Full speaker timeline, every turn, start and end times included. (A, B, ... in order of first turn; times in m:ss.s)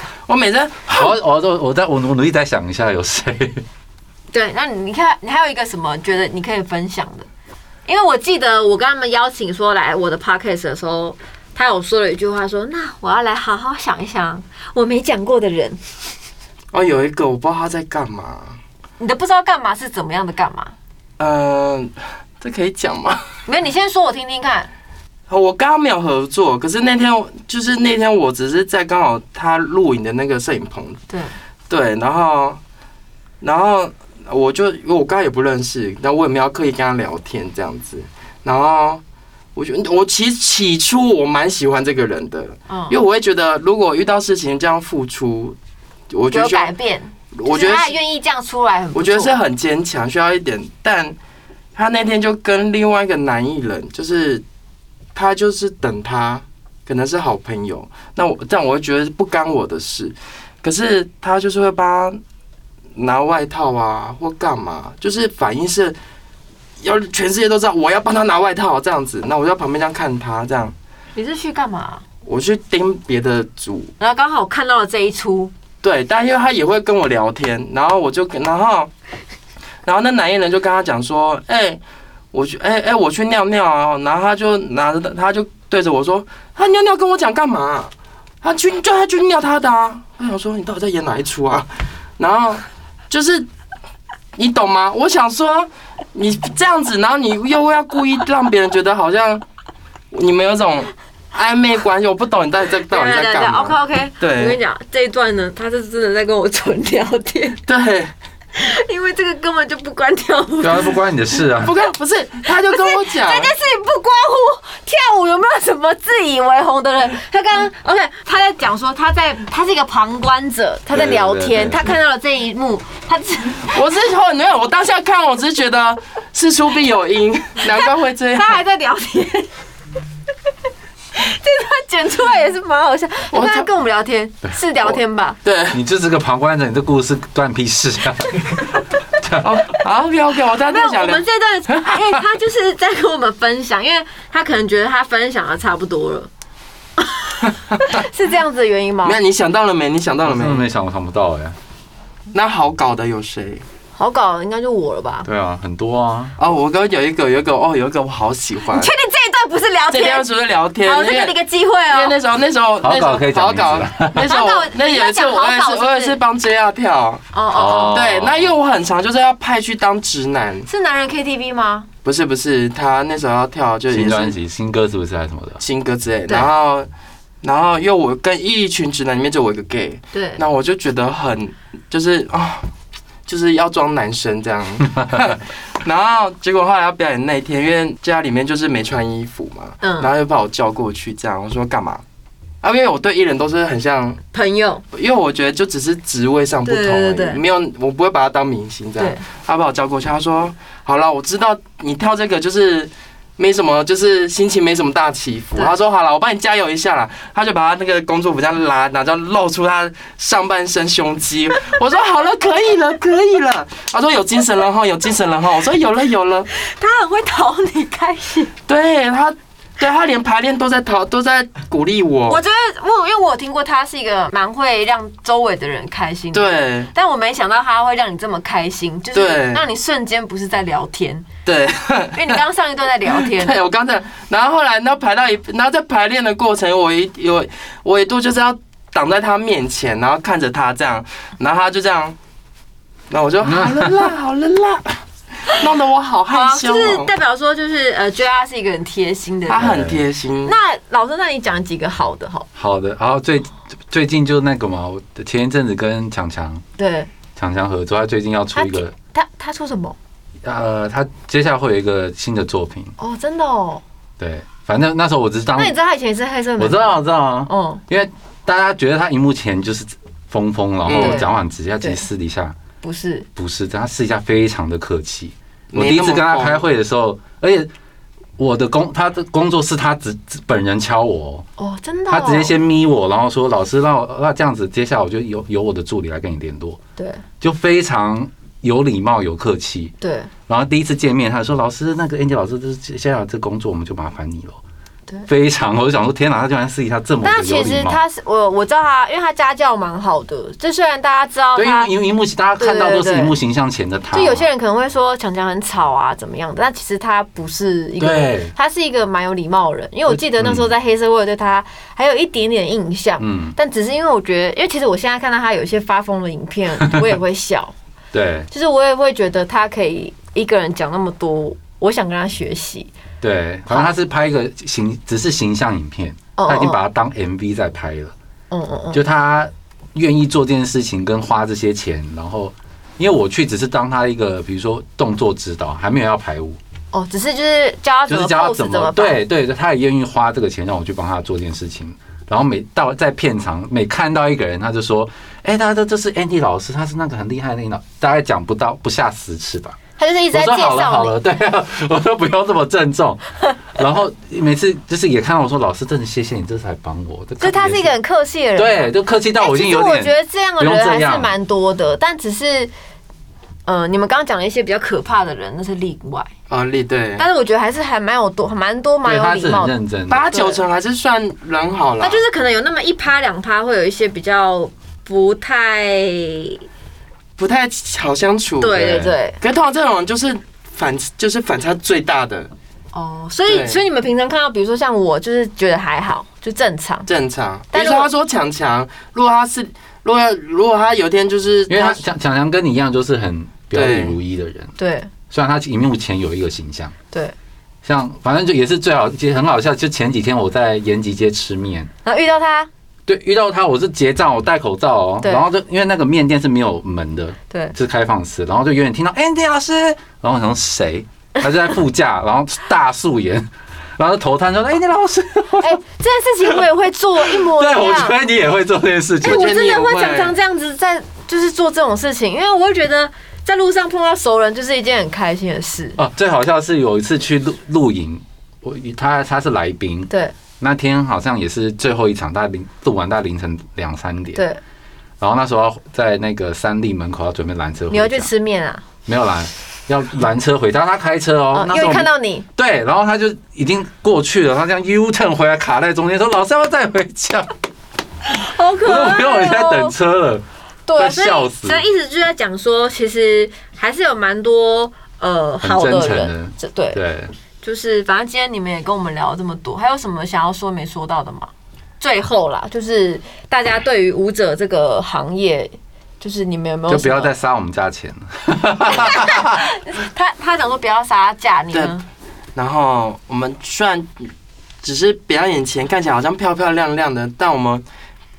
0:00.3-0:01.1 A
0:00.9-0:03.6 B
0:04.3-0:07.2 C
0:07.9-0:15.8 C
0:16.7-0:18.6 A
0:19.0-0:20.7 C
0:21.2-0:23.2 A
0:23.4-0:24.7 C
0:25.3-0:31.0 A
0:31.1-0:31.4 C
0:31.7-0:32.6 A
0:33.4-0:39.0 A
0:39.6-0:45.6 A
0:42.7-0:43.0 C
0:46.1-0:46.7 A
0:46.3-0:49.3 C
0:47.3-0:48.0 A
0:48.9-0:51.2 A
0:51.8-0:54.4 A
0:55.1-1:02.2 A
1:02.9-1:05.9 A
1:06.8-1:10.7 A
1:11.2-1:12.0 C
1:12.2-1:13.9 A
1:14.0-1:15.5 C
1:15.8-1:18.9 A
1:19.8-1:21.8 A
1:22.3-1:33.4 A
1:34.4-1:39.4 A
1:40.1-1:44.6 A
1:42.9-1:47.6 C
1:47.6-1:48.1 A
1:48.5-1:51.0 C
1:50.6-1:51.8 B
1:51.6-1:53.5 A
1:52.6-2:03.8 C
2:00.9-2:01.9 B
2:03.6-2:08.6 A
2:07.7-2:09.5 C
2:11.1-2:15.4 C
2:13.3-2:13.7 A
2:14.8-2:15.8 A
2:15.7-2:19.6 B
2:19.4-2:22.1 A
2:20.7-2:26.3 C
2:27.0-2:29.2 C
2:29.0-2:30.6 A
2:30.2-2:31.6 B
2:32.3-2:33.6 A
2:34.0-2:35.3 C
2:35.2-2:36.3 B
2:36.4-2:38.9 A
2:38.7-2:40.2 C
2:39.9-2:41.4 A
2:40.8-2:42.2 C
2:41.9-2:47.3 A
2:42.8-2:44.3 B
2:44.1-2:46.2 C
2:47.3-2:48.0 C
2:47.5-2:48.5 B
2:47.9-2:50.7 A
2:50.7-2:51.9 C
2:52.0-2:54.4 A
2:53.9-2:55.6 B
2:55.6-2:56.9 A
2:57.4-3:02.7 A
3:00.1-3:00.4 C
3:03.3-3:12.0 A
3:05.0-3:05.2 B
3:09.8-3:10.1 C
3:12.6-3:14.2 A
3:14.3-3:14.8 C
3:14.9-3:36.5 A
3:16.6-3:17.4 C
3:19.0-3:19.2 C
3:36.5-3:38.5 C
3:38.7-3:42.4 A
3:42.3-3:51.2 C
3:46.3-3:46.9 A
3:49.1-3:49.6 A
3:51.4-3:52.4 A
3:52.1-3:53.6 C
3:53.1-4:02.2 A
4:03.1-4:07.1 A
4:03.4-4:04.1 B
4:06.3-4:09.8 C
4:09.5-4:10.6 A
4:09.6-4:10.0 B
4:10.4-4:12.5 C
4:12.5-4:16.6 B
4:16.8-4:17.1 C
4:17.4-4:18.9 B
4:18.5-4:20.0 C
4:20.4-4:22.9 B
4:23.0-4:23.8 C
4:24.2-4:25.7 B
4:25.6-4:27.8 C
4:26.6-4:32.6 B
4:30.9-4:31.3 A
4:30.9-4:32.0 C
4:32.8-4:33.3 C
4:33.4-4:37.7 B
4:35.7-4:36.6 A
4:38.4-4:41.4 B
4:41.6-4:42.5 C
4:42.1-4:46.8 B
4:47.0-4:47.2 C
4:47.4-4:49.9 B
4:50.0-4:50.3 C
4:50.5-4:54.6 B
4:55.3-4:58.0 B
4:57.2-5:01.9 C
5:01.5-5:04.4 B
5:02.6-5:03.4 C
5:04.1-5:17.7 C
5:08.0-5:08.5 B
5:10.1-5:10.7 B
5:13.2-5:13.6 B
5:18.1-5:18.5 B
5:18.5-5:22.9 C
5:23.2-5:28.1 B
5:23.7-5:23.9 C
5:26.4-5:26.8 C
5:28.5-5:29.0 C
5:28.9-5:36.6 B
5:36.9-5:39.2 C
5:38.1-5:49.8 B
5:50.0-5:51.1 C
5:50.3-5:58.0 B
5:57.4-6:02.7 C
5:58.6-6:01.3 B
6:03.7-6:06.3 C
6:06.5-6:07.2 A
6:07.2-6:09.7 C
6:09.0-6:10.4 B
6:10.1-6:12.2 A
6:10.3-6:10.6 C
6:12.0-6:16.6 C
6:17.4-6:18.8 A
6:18.6-6:19.4 C
6:18.8-6:19.1 B
6:19.4-6:22.5 A
6:22.9-6:27.1 C
6:23.5-6:23.8 A
6:27.1-6:32.0 A
6:27.7-6:28.1 C
6:31.7-6:34.7 B
6:33.7-6:34.1 A
6:34.8-6:35.1 C
6:35.3-6:36.9 B
6:37.8-6:41.9 B
6:42.0-6:42.7 C
6:43.1-6:55.8 B
6:45.2-6:45.5 C
6:47.5-6:47.7 C
6:55.6-6:58.2 C
6:57.2-6:59.5 B
6:59.2-7:06.0 C
6:59.2-7:00.3 A
7:06.0-7:14.4 B
7:14.3-7:14.6 C
7:15.2-7:18.3 B
7:17.9-7:18.8 C
7:19.0-7:27.5 B
7:21.5-7:22.4 C
7:28.3-7:29.9 C
7:28.8-7:30.4 B
7:30.9-7:37.0 C
7:31.0-7:31.8 B
7:35.6-7:37.3 B
7:37.6-7:47.3 C
7:46.9-7:49.6 B
7:48.9-7:52.0 C
7:52.6-7:54.3 A
7:54.8-7:57.8 A